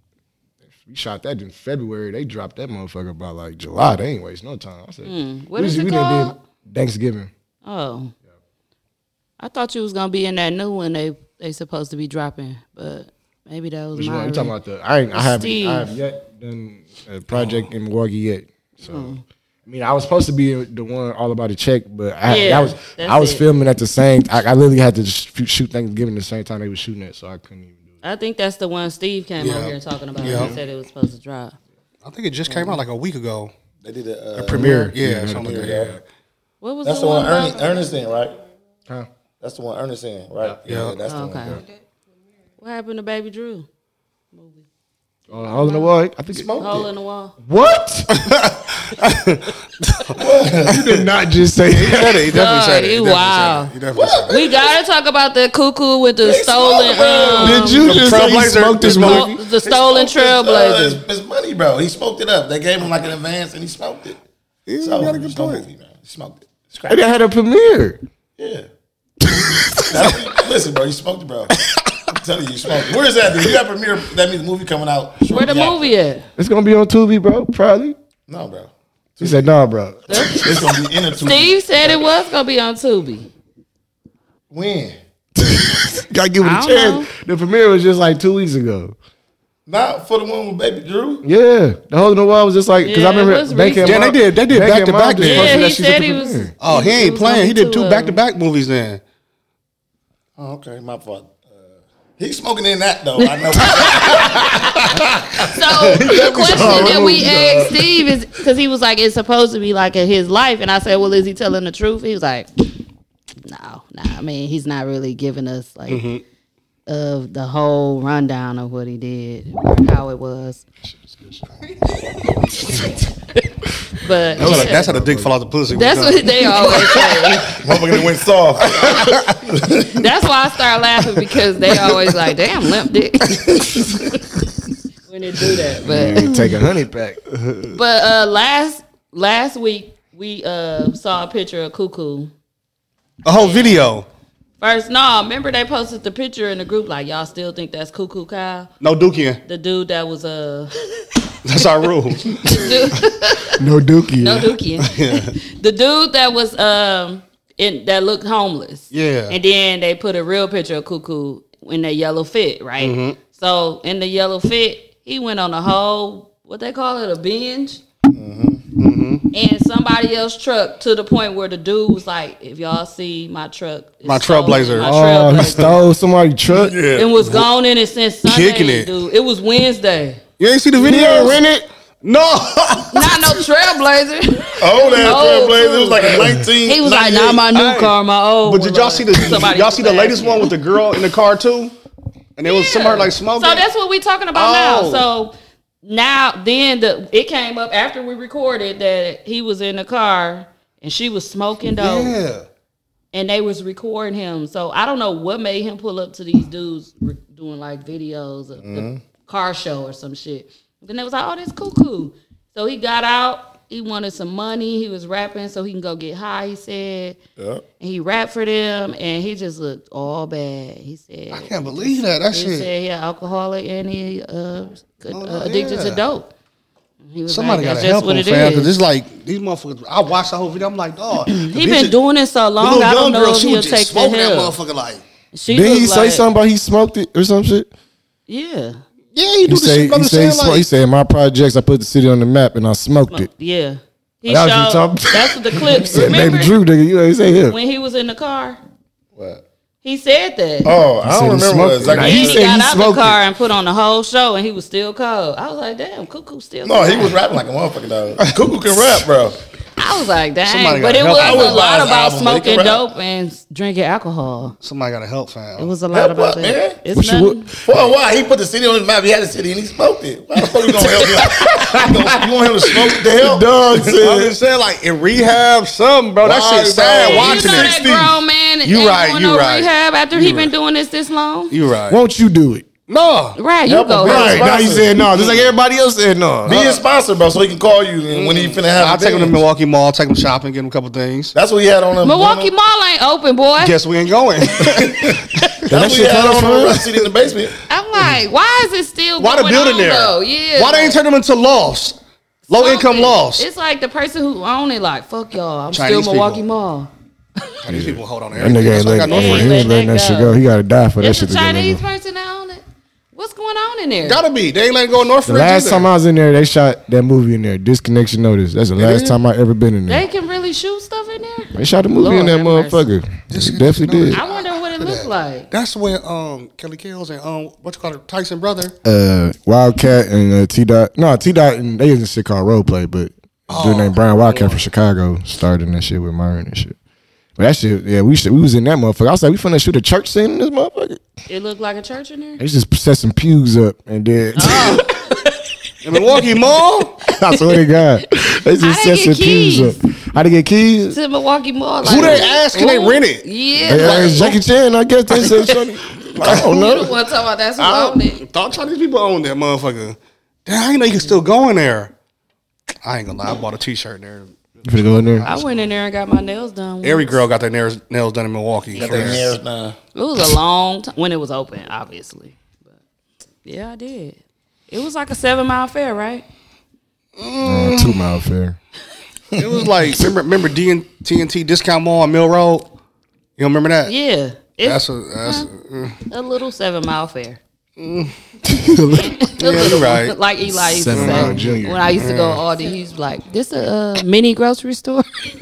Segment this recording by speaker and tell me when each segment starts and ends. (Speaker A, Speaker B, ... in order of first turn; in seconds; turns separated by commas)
Speaker A: 0.8-7.3, Speaker B: 5.0-6.3, Speaker B: 7.6-8.1, Speaker B: 9.4-14.5, Speaker A: 13.9-27.9, Speaker B: 15.1-15.9, Speaker C: 17.3-17.7, Speaker B: 18.8-19.2, Speaker B: 22.3-23.4, Speaker B: 28.0-31.6, Speaker C: 29.4-30.6, Speaker A: 30.2-30.6, Speaker C: 32.0-33.5, Speaker B: 32.5-32.8, Speaker D: 33.8-35.9, Speaker A: 34.4-36.0, Speaker C: 34.5-35.9, Speaker B: 36.6-37.9, Speaker D: 36.8-38.4, Speaker D: 39.4-41.6, Speaker C: 40.6-41.0, Speaker B: 41.1-41.6, Speaker B: 42.6-43.7, Speaker B: 44.3-44.6, Speaker A: 45.3-46.5, Speaker B: 45.5-45.9, Speaker D: 46.3-46.9, Speaker B: 46.6-47.3, Speaker A: 47.4-48.5, Speaker C: 48.1-51.0, Speaker D: 50.1-50.9, Speaker A: 50.6-52.3, Speaker C: 51.7-54.4, Speaker B: 52.3-53.7, Speaker D: 53.9-54.7, Speaker B: 54.3-57.8, Speaker D: 56.2-57.7, Speaker A: 57.4-59.4, Speaker C: 57.7-59.3, Speaker B: 58.9-61.0, Speaker D: 59.6-64.2, Speaker C: 64.7-65.6, Speaker D: 64.8-67.0, Speaker A: 66.9-68.0, Speaker D: 68.4-68.7, Speaker A: 69.2-70.2, Speaker D: 69.8-71.5, Speaker D: 72.1-75.9, Speaker B: 75.3-76.3, Speaker A: 76.4-78.0, Speaker D: 78.3-79.4, Speaker A: 79.2-80.4, Speaker B: 80.1-80.6, Speaker D: 80.1-81.6, Speaker B: 81.1-83.3, Speaker D: 84.5-85.0, Speaker A: 85.4-89.0, Speaker B: 86.4-87.1, Speaker D: 89.7-91.2, Speaker A: 91.2-96.5, Speaker B: 92.8-94.0, Speaker C: 93.8-95.6, Speaker B: 95.2-98.2, Speaker C: 96.6-99.0, Speaker D: 100.4-101.5, Speaker D: 102.2-108.0, Speaker B: 103.6-104.2, Speaker B: 105.4-112.5, Speaker A: 106.5-107.2, Speaker C: 106.6-106.9, Speaker B: 113.4-116.0, Speaker C: 115.9-116.2, Speaker B: 116.9-120.6, Speaker B: 124.0-124.8, Speaker A: 124.2-125.3, Speaker C: 124.4-126.7, Speaker B: 125.7-127.6, Speaker D: 127.6-130.1, Speaker C: 128.7-129.3, Speaker B: 129.9-134.2, Speaker B: 135.1-136.4, Speaker A: 135.8-137.7, Speaker B: 137.7-142.3, Speaker C: 143.2-144.1, Speaker B: 143.3-143.8, Speaker B: 144.6-148.7, Speaker C: 148.8-149.4, Speaker B: 149.4-150.7, Speaker C: 151.4-152.9, Speaker B: 152.4-153.6, Speaker A: 153.6-154.6, Speaker B: 154.2-167.8, Speaker C: 154.8-155.3, Speaker C: 158.9-159.4, Speaker C: 162.8-163.2, Speaker D: 168.1-168.6, Speaker C: 168.8-169.2, Speaker B: 169.3-175.8, Speaker C: 174.0-175.7, Speaker A: 174.8-176.8, Speaker D: 176.5-177.1, Speaker B: 176.9-180.2, Speaker C: 178.2-178.9, Speaker C: 180.4-181.4, Speaker A: 180.8-181.7, Speaker B: 180.9-181.3, Speaker C: 182.0-183.4, Speaker B: 182.9-190.5, Speaker D: 184.6-187.4, Speaker C: 187.5-191.7, Speaker C: 192.3-193.7, Speaker B: 192.4-202.1, Speaker C: 194.3-195.1, Speaker C: 201.8-202.4, Speaker B: 203.1-217.2, Speaker D: 208.6-209.0, Speaker D: 217.4-217.6, Speaker B: 217.8-226.3, Speaker C: 221.3-222.7, Speaker C: 225.1-226.0, Speaker B: 227.0-228.7, Speaker C: 227.3-231.9, Speaker B: 231.3-234.5, Speaker C: 232.6-235.0, Speaker B: 235.3-236.3, Speaker A: 235.5-237.7, Speaker B: 238.3-238.8, Speaker C: 239.1-240.7, Speaker A: 239.4-243.3, Speaker B: 243.1-246.5, Speaker A: 244.3-247.6, Speaker B: 247.5-248.6, Speaker D: 249.1-249.4, Speaker B: 249.8-250.7, Speaker D: 250.6-252.4, Speaker A: 251.0-253.2, Speaker B: 251.9-257.1, Speaker D: 256.6-259.4, Speaker B: 259.8-264.5, Speaker C: 260.4-261.7, Speaker D: 261.2-262.8, Speaker C: 264.6-265.7, Speaker B: 265.6-267.5, Speaker D: 265.9-266.8, Speaker A: 266.9-267.6, Speaker D: 267.6-274.3, Speaker A: 270.9-274.3, Speaker C: 273.9-277.9, Speaker D: 276.2-278.2, Speaker B: 276.9-281.5, Speaker C: 278.6-280.5, Speaker C: 281.5-282.0, Speaker A: 281.9-282.7, Speaker C: 282.9-283.4, Speaker B: 283.4-284.5, Speaker D: 283.6-285.0, Speaker A: 284.0-286.8, Speaker C: 285.1-285.4, Speaker D: 286.5-289.4, Speaker C: 288.1-291.3, Speaker D: 291.3-292.5, Speaker B: 292.0-293.7, Speaker C: 293.6-295.5, Speaker D: 294.6-297.5, Speaker A: 295.7-297.1, Speaker B: 297.7-301.0, Speaker C: 299.2-302.0, Speaker C: 302.5-303.4, Speaker B: 302.5-306.9, Speaker C: 305.7-306.4, Speaker C: 307.6-309.7, Speaker A: 307.7-311.8, Speaker B: 309.0-310.4, Speaker B: 311.0-314.2, Speaker C: 314.0-315.9, Speaker A: 315.2-320.0, Speaker C: 318.8-319.1, Speaker B: 319.9-322.9, Speaker A: 321.5-324.2, Speaker C: 323.3-328.7, Speaker B: 324.1-325.5, Speaker A: 328.8-336.8, Speaker C: 333.5-334.6, Speaker A: 337.4-341.0, Speaker B: 341.3-342.4, Speaker A: 342.4-344.9, Speaker B: 344.4-345.5, Speaker C: 345.8-346.9, Speaker A: 347.1-351.0, Speaker B: 348.6-349.8, Speaker B: 350.9-354.4, Speaker C: 351.8-354.3, Speaker A: 351.9-352.2, Speaker A: 353.6-356.9, Speaker B: 355.1-355.6, Speaker B: 356.2-358.2, Speaker C: 357.6-361.9, Speaker C: 362.8-364.3, Speaker A: 364.6-365.4, Speaker B: 365.2-367.2, Speaker C: 366.8-369.4, Speaker D: 368.7-369.8, Speaker B: 368.8-369.1, Speaker B: 369.9-372.4, Speaker B: 373.4-374.2, Speaker B: 374.7-376.2, Speaker C: 377.1-378.0, Speaker A: 377.4-378.6, Speaker C: 379.4-382.7, Speaker C: 383.4-383.9, Speaker B: 383.9-385.5, Speaker C: 384.6-386.0, Speaker B: 386.1-387.4, Speaker C: 387.8-388.1, Speaker A: 388.4-389.3, Speaker B: 388.9-395.1, Speaker C: 389.4-390.1, Speaker A: 390.5-391.9, Speaker C: 390.9-392.4